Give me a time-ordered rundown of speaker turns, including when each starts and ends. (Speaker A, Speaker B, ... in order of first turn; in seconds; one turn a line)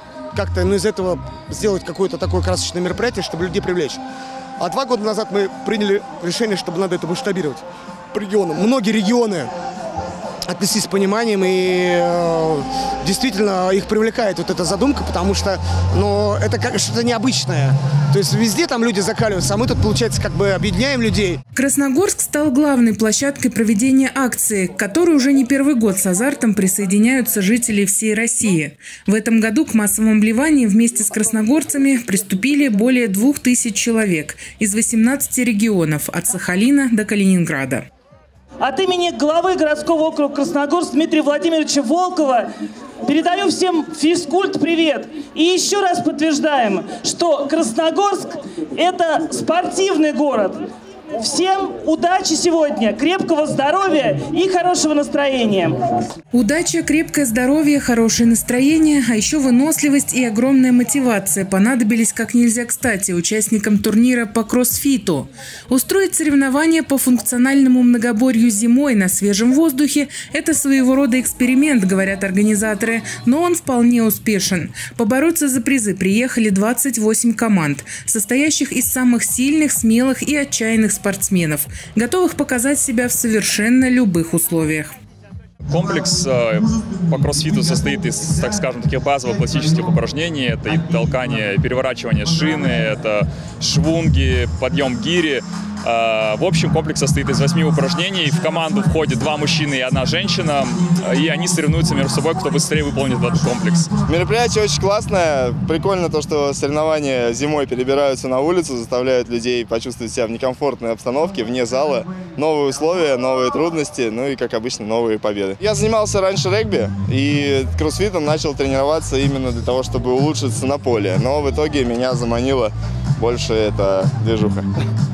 Speaker A: 0.3-4.0
Speaker A: 4.6-9.5
Speaker A: 10.5-21.4
Speaker B: 21.5-37.8
Speaker C: 38.6-42.5
Speaker C: 43.0-55.8
Speaker B: 56.3-85.0
Speaker D: 85.7-103.9
Speaker E: 104.1-122.7
Speaker E: 123.2-124.7